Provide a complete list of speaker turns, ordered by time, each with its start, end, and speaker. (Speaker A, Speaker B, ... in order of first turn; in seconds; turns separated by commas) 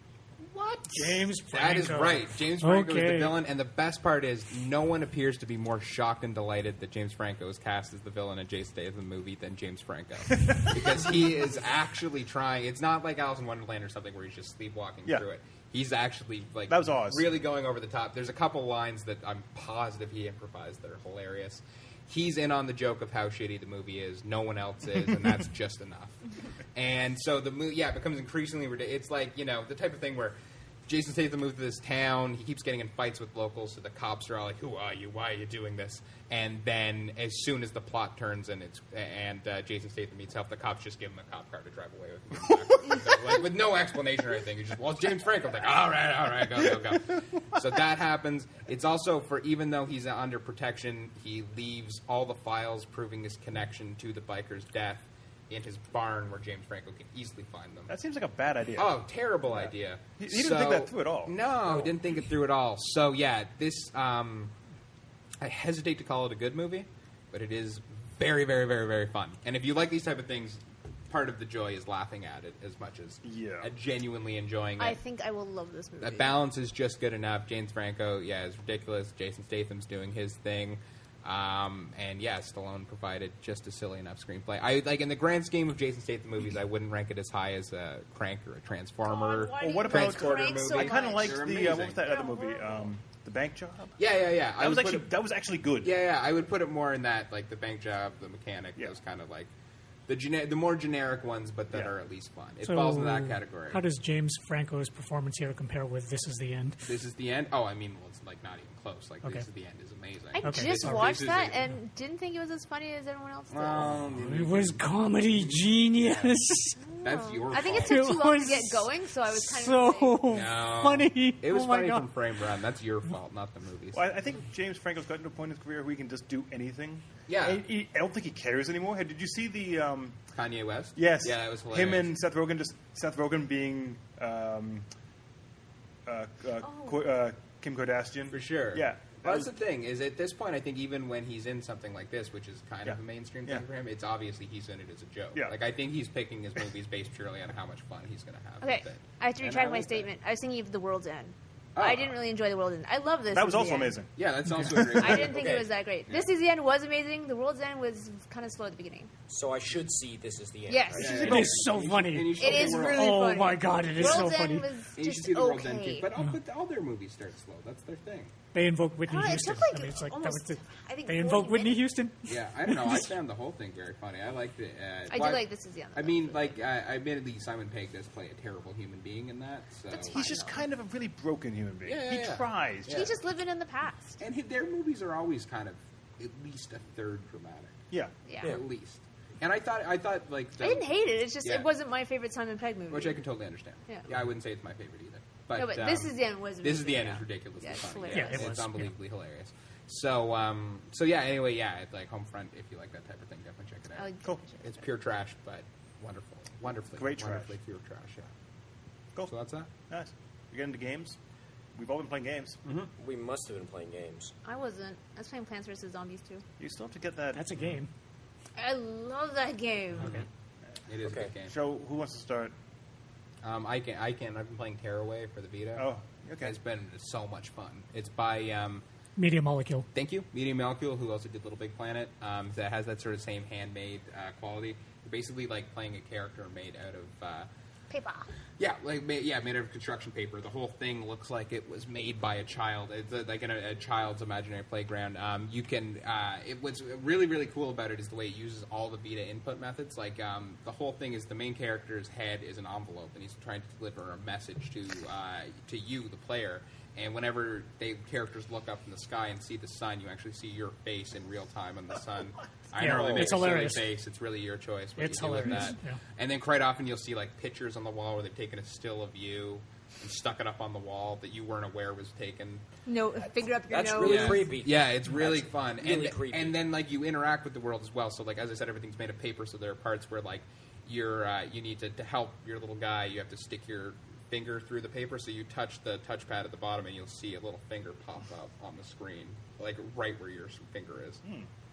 Speaker A: 0.5-26.2, Speaker B: 0.8-3.4, Speaker C: 16.7-17.3, Speaker A: 26.7-30.4, Speaker A: 30.9-57.9, Speaker C: 57.9-58.9, Speaker A: 58.8-64.5, Speaker C: 59.5-61.3, Speaker A: 65.4-75.0, Speaker C: 73.2-73.7, Speaker D: 74.8-76.4, Speaker A: 76.0-92.0, Speaker D: 89.0-92.9, Speaker C: 89.6-93.9, Speaker A: 94.0-95.1, Speaker C: 94.6-95.9, Speaker A: 95.8-99.5, Speaker A: 100.1-103.8, Speaker B: 102.6-106.8, Speaker A: 106.8-111.6, Speaker D: 110.3-114.0, Speaker B: 110.4-111.1, Speaker A: 113.5-116.3, Speaker B: 114.1-116.8, Speaker D: 116.8-120.3, Speaker A: 117.0-118.2, Speaker B: 117.8-122.1, Speaker A: 120.3-124.1, Speaker C: 123.9-130.2, Speaker A: 127.3-127.6, Speaker A: 130.3-132.1, Speaker C: 130.9-134.9, Speaker C: 136.1-139.5, Speaker D: 136.6-137.0, Speaker A: 138.3-150.1, Speaker C: 142.9-143.6, Speaker D: 148.6-154.0, Speaker A: 151.8-152.2, Speaker C: 153.3-155.3, Speaker A: 154.2-156.3, Speaker D: 154.8-159.1, Speaker E: 155.3-155.7, Speaker E: 159.3-161.5, Speaker D: 160.7-161.4, Speaker A: 160.9-163.2, Speaker B: 161.1-164.7, Speaker D: 162.4-166.1, Speaker A: 163.9-164.4, Speaker A: 164.9-168.3, Speaker B: 168.5-173.1, Speaker D: 169.1-171.9, Speaker A: 172.3-175.4, Speaker D: 175.1-176.5, Speaker A: 175.9-180.2, Speaker D: 179.9-180.7, Speaker C: 180.1-183.1, Speaker A: 181.8-183.2, Speaker D: 182.9-184.2, Speaker A: 184.2-187.8, Speaker D: 188.3-188.6, Speaker A: 188.4-190.9, Speaker D: 190.6-193.2, Speaker A: 191.4-191.7, Speaker A: 192.9-204.1, Speaker D: 195.6-198.6, Speaker B: 198.1-198.9, Speaker D: 203.9-204.8, Speaker A: 204.6-208.3, Speaker C: 206.9-207.5, Speaker A: 209.3-209.7, Speaker C: 209.9-211.2, Speaker C: 211.7-212.6, Speaker E: 213.0-214.3, Speaker D: 214.4-216.4, Speaker C: 216.6-217.4, Speaker B: 217.3-217.9, Speaker D: 218.6-220.2, Speaker B: 220.0-220.2, Speaker A: 220.0-220.2, Speaker A: 220.9-221.5, Speaker E: 221.0-221.3, Speaker C: 221.4-222.5, Speaker A: 223.4-228.8, Speaker C: 225.8-226.5, Speaker B: 229.2-229.9, Speaker A: 229.9-237.5, Speaker D: 237.9-238.3, Speaker A: 238.6-272.6, Speaker B: 262.8-263.8, Speaker E: 262.8-263.5, Speaker B: 264.9-266.0, Speaker D: 272.9-274.5, Speaker E: 273.7-276.6, Speaker A: 274.0-291.2